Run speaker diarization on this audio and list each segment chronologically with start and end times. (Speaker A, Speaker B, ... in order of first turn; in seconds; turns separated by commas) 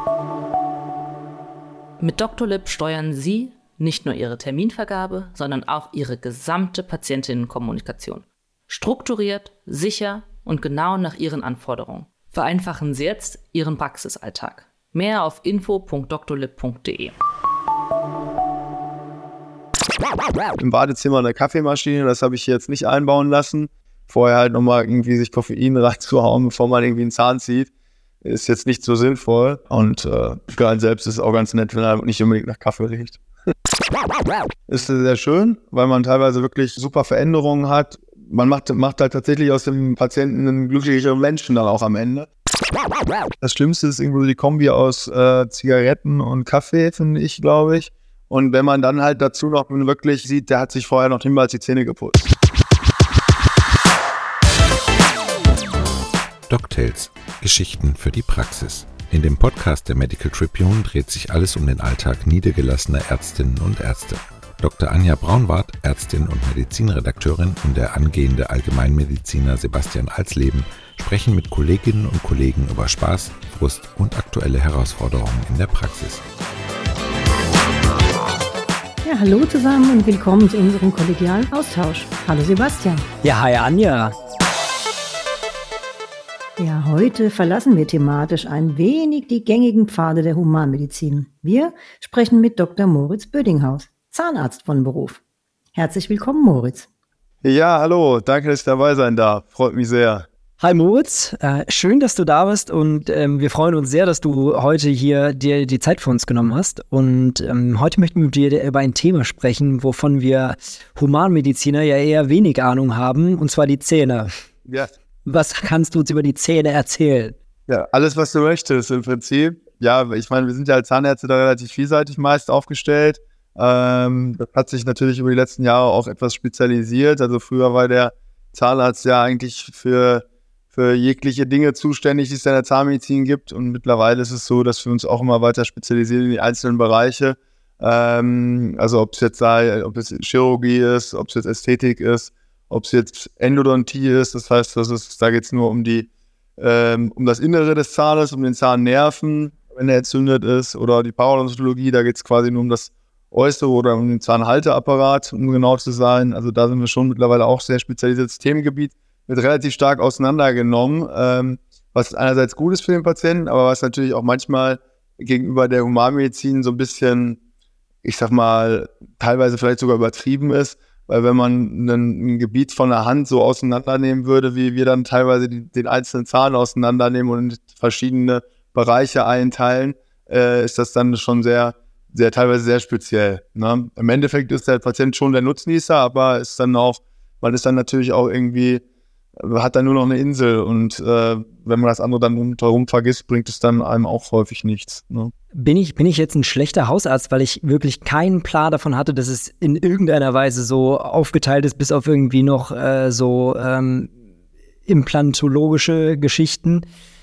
Speaker A: 2.0-17.1, Speaker B: 20.6-27.7, Speaker B: 28.2-33.2, Speaker B: 34.7-42.3, Speaker B: 43.4-52.3, Speaker C: 56.5-76.2, Speaker D: 79.0-83.0, Speaker E: 83.2-84.2, Speaker D: 86.6-95.2, Speaker D: 95.8-96.9, Speaker B: 97.4-100.3, Speaker E: 100.6-114.3, Speaker B: 114.7-114.9, Speaker E: 115.3-117.4, Speaker B: 117.7-167.4, Speaker B: 168.0-188.8, Speaker B: 189.4-195.3, Speaker E: 195.5-204.1, Speaker E: 204.9-206.9